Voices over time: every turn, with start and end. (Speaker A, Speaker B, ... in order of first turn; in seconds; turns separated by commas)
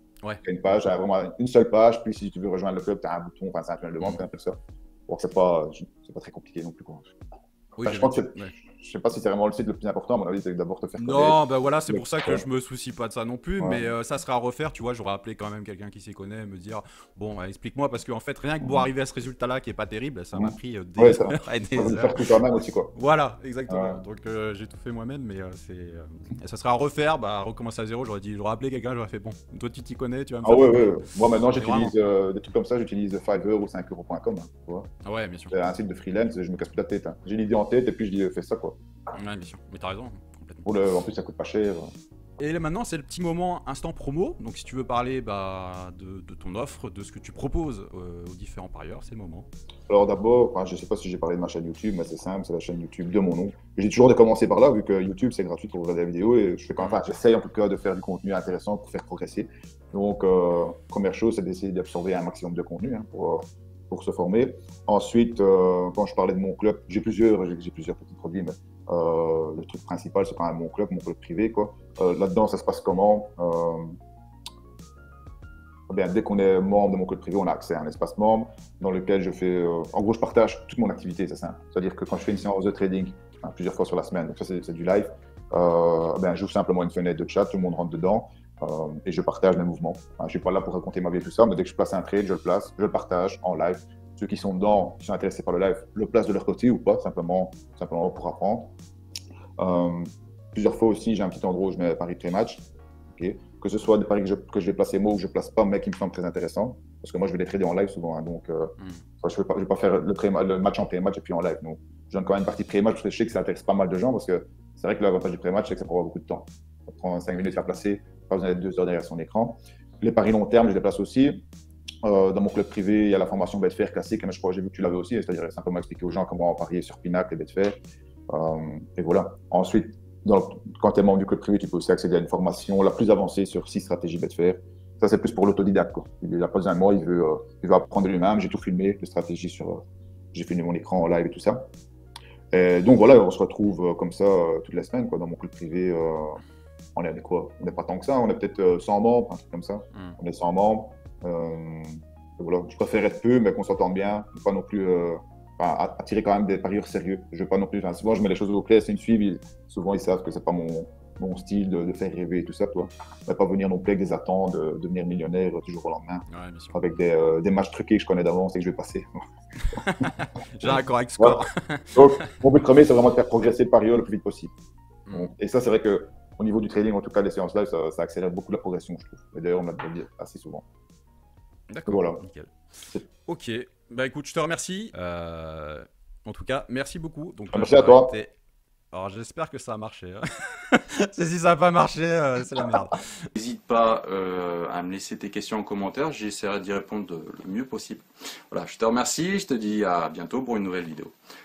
Speaker A: 0.4-4.6, Speaker A: 5.1-7.1, Speaker B: 7.8-8.6, Speaker A: 7.8-12.4, Speaker B: 11.0-22.2, Speaker A: 13.6-13.9, Speaker A: 18.6-18.9, Speaker A: 20.3-22.9, Speaker B: 22.9-32.0, Speaker A: 23.7-24.0, Speaker A: 30.4-34.9, Speaker B: 35.0-35.6, Speaker A: 35.5-38.8, Speaker B: 39.1-40.6, Speaker A: 40.6-41.9, Speaker B: 42.4-49.5, Speaker A: 49.9-74.0, Speaker A: 75.9-98.7, Speaker A: 99.6-121.5, Speaker B: 108.8-109.0, Speaker A: 122.0-127.8, Speaker A: 128.3-139.8, Speaker A: 140.3-141.7, Speaker A: 142.5-146.4, Speaker A: 147.0-169.1, Speaker B: 149.9-150.2, Speaker B: 166.3-167.0, Speaker B: 169.7-172.4, Speaker A: 169.7-170.1, Speaker A: 170.6-171.4, Speaker A: 171.9-174.5, Speaker B: 175.1-175.3, Speaker A: 175.1-180.6, Speaker B: 181.7-182.5, Speaker A: 181.9-182.2, Speaker B: 183.2-188.3, Speaker A: 187.5-188.1, Speaker B: 188.9-201.1